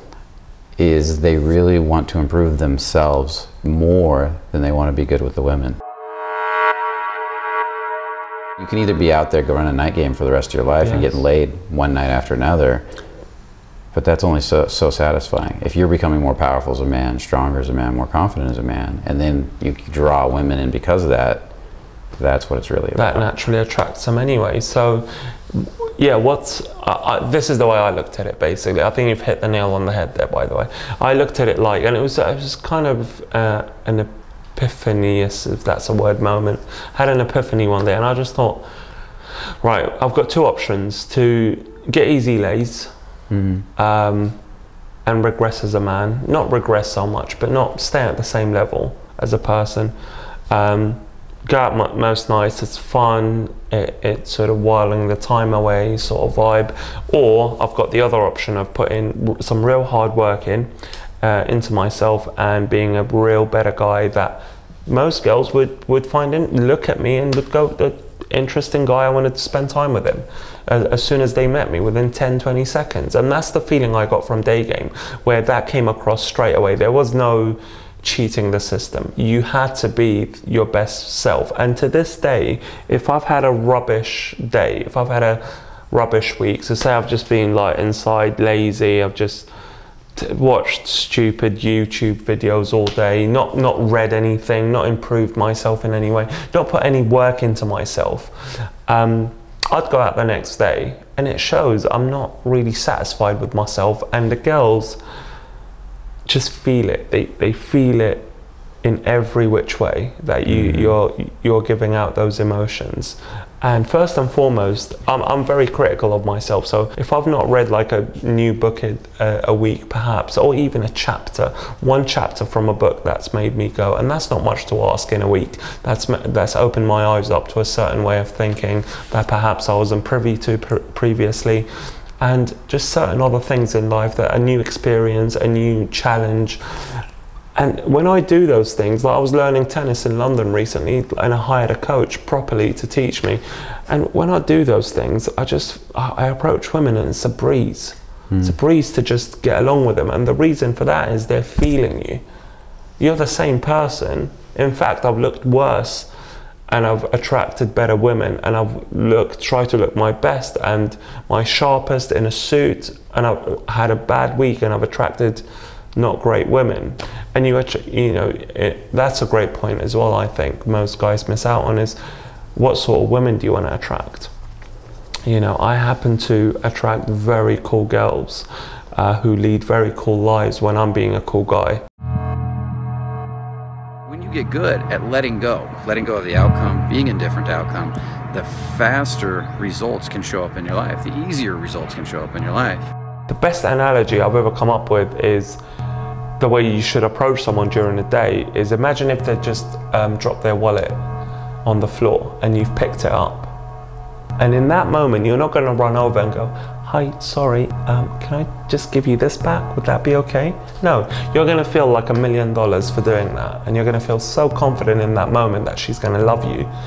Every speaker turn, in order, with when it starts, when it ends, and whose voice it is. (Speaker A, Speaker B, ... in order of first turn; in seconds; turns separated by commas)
Speaker A: 0.8-5.8, Speaker A: 8.6-12.8, Speaker B: 10.8-11.2, Speaker A: 13.9-21.5, Speaker A: 22.2-23.2, Speaker B: 22.9-38.6, Speaker B: 39.6-42.9, Speaker A: 43.3-43.6, Speaker B: 43.8-44.4, Speaker B: 45.0-49.9, Speaker B: 50.5-89.5, Speaker B: 90.1-105.0, Speaker B: 106.2-108.3, Speaker B: 108.8-131.7, Speaker A: 110.5-110.9, Speaker B: 132.2-137.0, Speaker B: 137.6-152.2, Speaker B: 153.0-156.1, Speaker B: 156.7-165.4, Speaker B: 165.9-172.0, Speaker B: 172.5-174.3, Speaker B: 175.2-181.8, Speaker A: 184.1-192.9, Speaker B: 193.3-195.6, Speaker B: 196.4-201.0, Speaker B: 201.6-203.5, Speaker B: 204.4-216.7